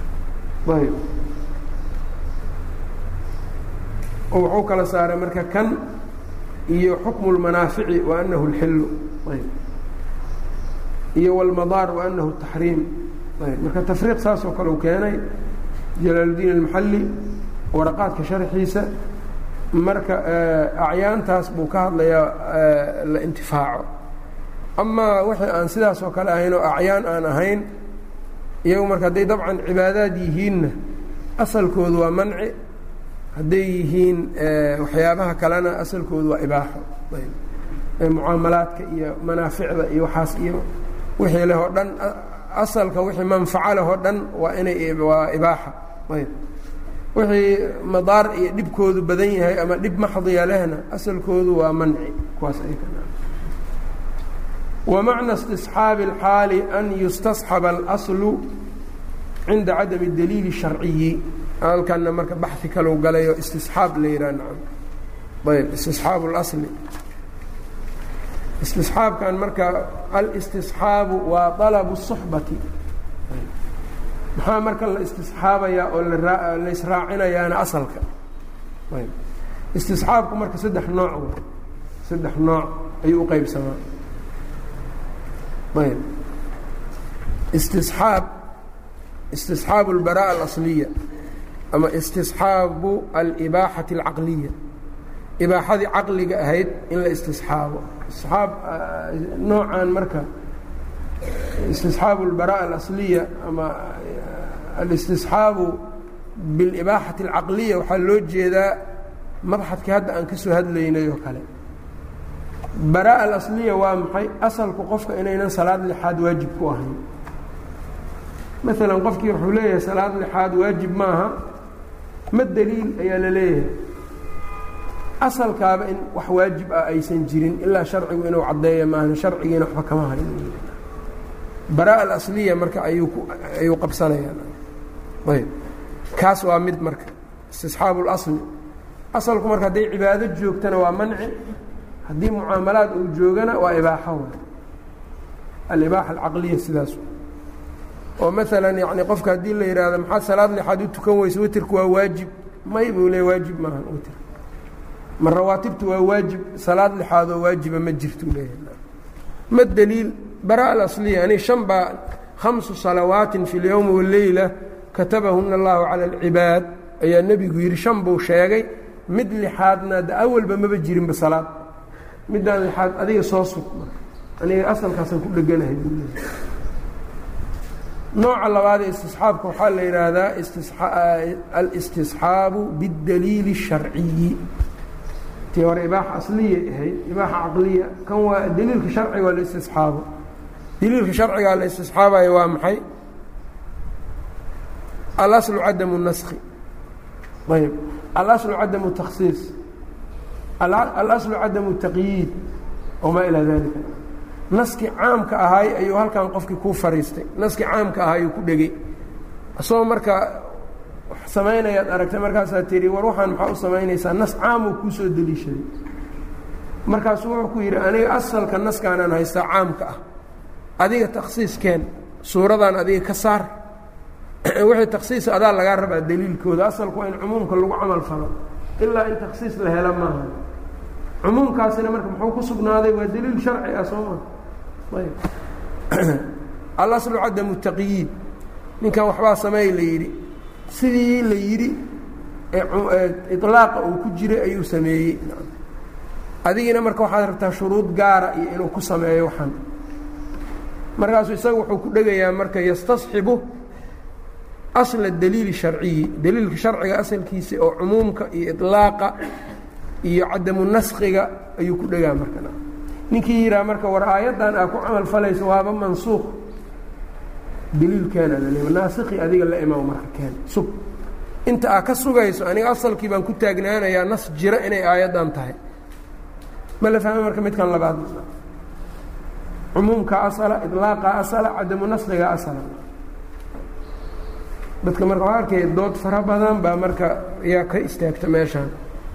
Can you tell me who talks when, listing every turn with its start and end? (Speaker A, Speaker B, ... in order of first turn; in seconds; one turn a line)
Speaker A: 0.7-1.0
Speaker A: 4.3-5.8
Speaker A: 6.7-9.5
Speaker A: 11.1-15.2
Speaker A: 16.0-17.1
Speaker A: 17.7-18.9
Speaker A: 19.7-23.9
Speaker A: 24.8-27.6
Speaker A: 28.6-30.7
Speaker A: 31.4-32.5
Speaker A: 33.3-37.4
Speaker A: 38.0-40.6
Speaker A: 41.2-46.3
Speaker A: 47.1-53.1
Speaker A: 54.9-58.5
Speaker A: 59.5-64.6
Speaker A: 65.4-66.7
Speaker A: 68.6-72.6
Speaker A: 74.3-78.0
Speaker A: 79.7-81.4
Speaker A: 82.0-83.8
Speaker A: 85.7-86.0
Speaker A: 87.5-88.3
Speaker A: 89.3-90.9
Speaker A: 91.7-94.5
Speaker A: 95.4-100.2
Speaker A: 101.6-105.8
Speaker A: 106.3-108.8
Speaker A: 109.4-111.4
Speaker A: 112.8-117.0
Speaker A: 118.6-121.3
Speaker A: 122.3-123.7
Speaker A: 125.2-130.8
Speaker A: 131.7-134.5
Speaker A: 135.2-135.5
Speaker A: 136.1-138.4
Speaker A: 139.1-141.3
Speaker A: 142.1-144.4
Speaker A: 145.7-147.0
Speaker A: 148.2-154.2
Speaker A: 155.2-158.8
Speaker A: 159.5-171.6
Speaker A: 172.3-176.2
Speaker A: 178.1-184.4
Speaker A: 185.5-190.0
Speaker A: 190.8-192.8
Speaker A: 195.2-196.4
Speaker A: 197.5-199.5
Speaker A: 200.6-202.3
Speaker A: 203.0-208.7
Speaker A: 209.6-210.5
Speaker A: 211.1-215.7
Speaker A: 216.8-220.0
Speaker A: 220.8-223.5
Speaker A: 224.4-230.4
Speaker A: 231.2-234.2
Speaker A: 234.9-235.2
Speaker A: 235.9-236.2
Speaker A: 236.8-238.1
Speaker A: 238.8-240.1
Speaker A: 240.7-241.8
Speaker A: 242.5-245.5
Speaker A: 246.4-249.6
Speaker A: 251.0-253.4
Speaker A: 254.7-259.1
Speaker A: 260.0-262.6
Speaker A: 263.1-266.4
Speaker A: 267.7-270.7
Speaker A: 271.4-275.6
Speaker A: 276.8-278.3
Speaker A: 279.7-282.8
Speaker A: 284.8-288.7